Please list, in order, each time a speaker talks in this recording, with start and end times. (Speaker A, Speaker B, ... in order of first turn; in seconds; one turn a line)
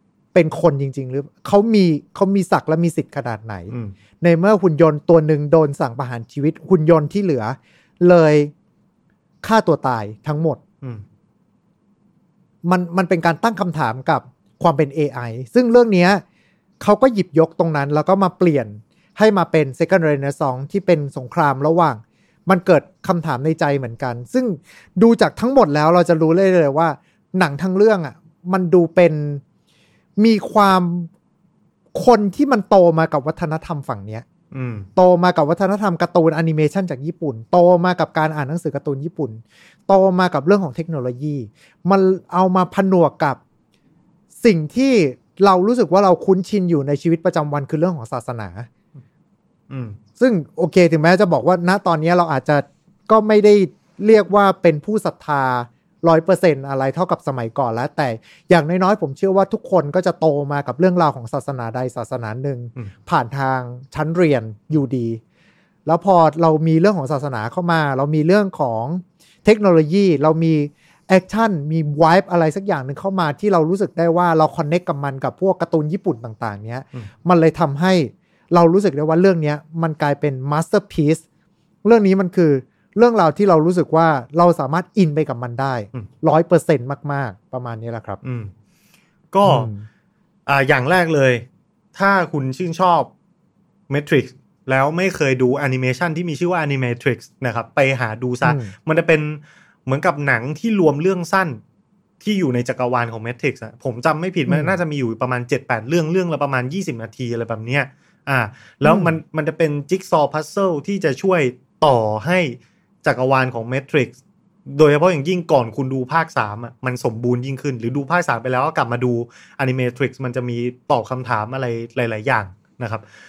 Speaker A: 0.3-8.5
Speaker A: 9.4-10.6
Speaker A: 12.6-16.2
Speaker A: 16.8-29.4
Speaker A: 30.2-31.1
Speaker A: 31.9-34.2
Speaker B: 34.5-34.9
Speaker A: 35.0-43.4
Speaker A: 44.4-48.7
Speaker B: 49.7-50.0
Speaker A: 50.2-65.2
Speaker A: 65.9-81.2
Speaker A: 81.8-88.2
Speaker B: 88.2-88.5
Speaker B: 89.3-89.7
Speaker A: 89.4-89.9
Speaker B: 90.5-93.1
Speaker B: 93.9-101.6
Speaker A: 98.4-98.7
Speaker B: 102.2-114.2
Speaker A: 104.5-104.7
Speaker A: 108.8-109.1
Speaker B: 114.7-123.0